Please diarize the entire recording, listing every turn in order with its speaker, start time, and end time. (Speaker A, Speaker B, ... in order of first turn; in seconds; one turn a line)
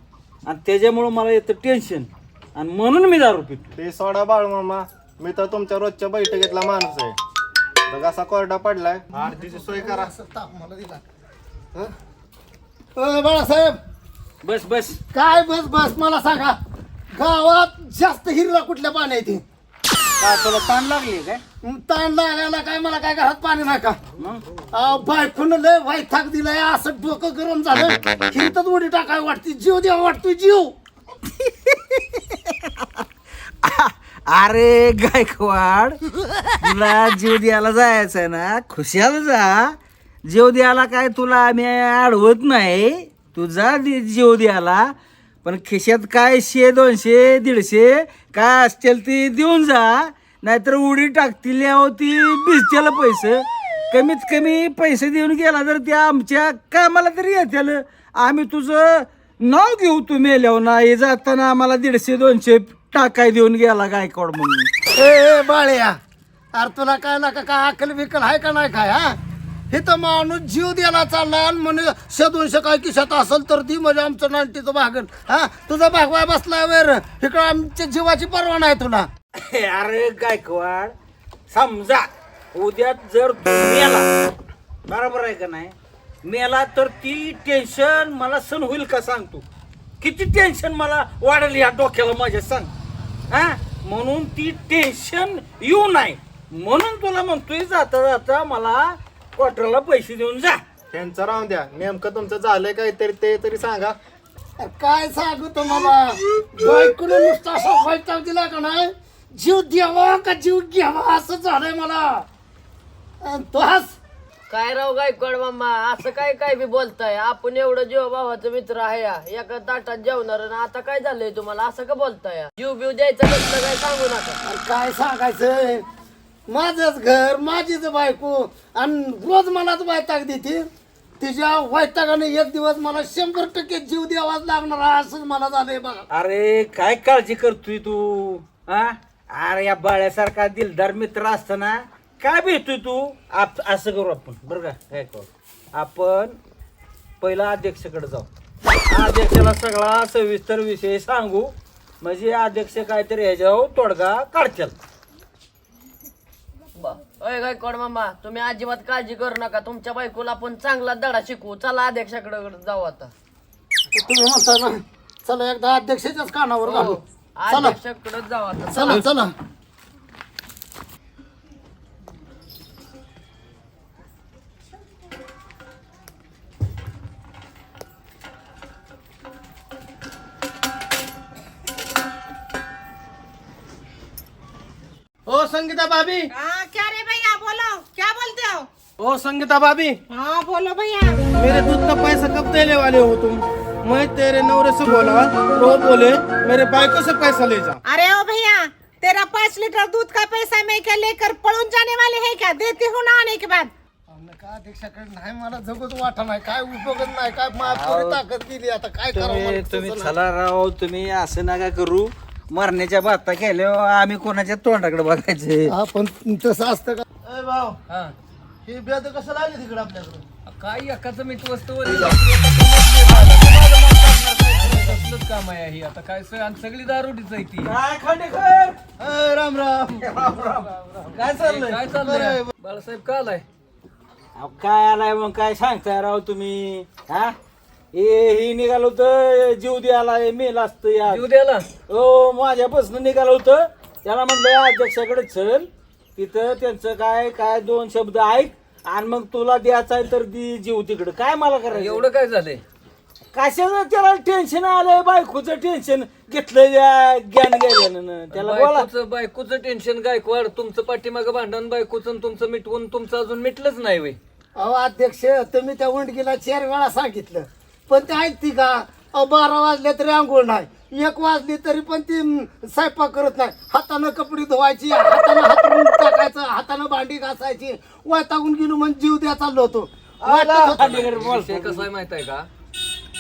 Speaker A: 0.5-3.7
Speaker B: 3.8-7.2
Speaker B: 7.9-10.1
Speaker C: 9.2-11.0
Speaker C: 13.0-13.8
Speaker A: 14.4-15.0
Speaker C: 15.1-16.6
Speaker C: 17.1-19.4
Speaker A: 20.2-21.4
Speaker C: 21.6-24.0
Speaker C: 24.7-30.7
Speaker A: 31.3-33.0
Speaker A: 33.6-36.0
Speaker A: 36.6-64.7
Speaker C: 65.0-66.0
Speaker C: 66.6-69.2
Speaker C: 69.7-79.1
Speaker A: 79.3-80.9
Speaker A: 81.5-84.1
Speaker A: 84.9-85.7
Speaker A: 86.2-89.5
Speaker A: 90.0-92.7
Speaker A: 93.3-100.6
Speaker B: 100.9-104.0
Speaker C: 104.6-112.2
Speaker C: 113.2-114.0
Speaker D: 114.5-124.4
Speaker C: 124.4-125.8
Speaker C: 126.5-130.7
Speaker C: 131.2-136.1
Speaker A: 136.1-146.4
Speaker A: 147.2-148.3
Speaker A: 148.9-154.8
Speaker D: 156.8-163.1
Speaker C: 163.9-167.8
Speaker D: 166.6-169.1
Speaker C: 168.7-169.3
Speaker E: 185.3-186.3
Speaker F: 186.3-188.7
Speaker E: 189.0-190.0
Speaker F: 190.1-191.2
Speaker E: 191.4-197.8
Speaker F: 197.9-203.7
Speaker C: 204.1-210.2
Speaker A: 207.7-208.2
Speaker A: 209.1-215.7
Speaker C: 215.7-217.1
Speaker E: 217.3-217.7
Speaker G: 217.9-218.1
Speaker G: 220.5-227.7
Speaker A: 223.4-225.0
Speaker A: 227.6-228.8
Speaker C: 229.0-230.5
Speaker A: 230.0-231.8
Speaker G: 231.4-233.4
Speaker A: 234.4-237.3
Speaker A: 237.9-241.2
Speaker G: 241.1-241.7
Speaker A: 241.9-252.0
Speaker G: 251.7-252.6
Speaker A: 253.3-258.9
Speaker G: 258.3-264.2
Speaker C: 264.6-281.0
Speaker A: 280.2-281.9
Speaker G: 280.8-282.5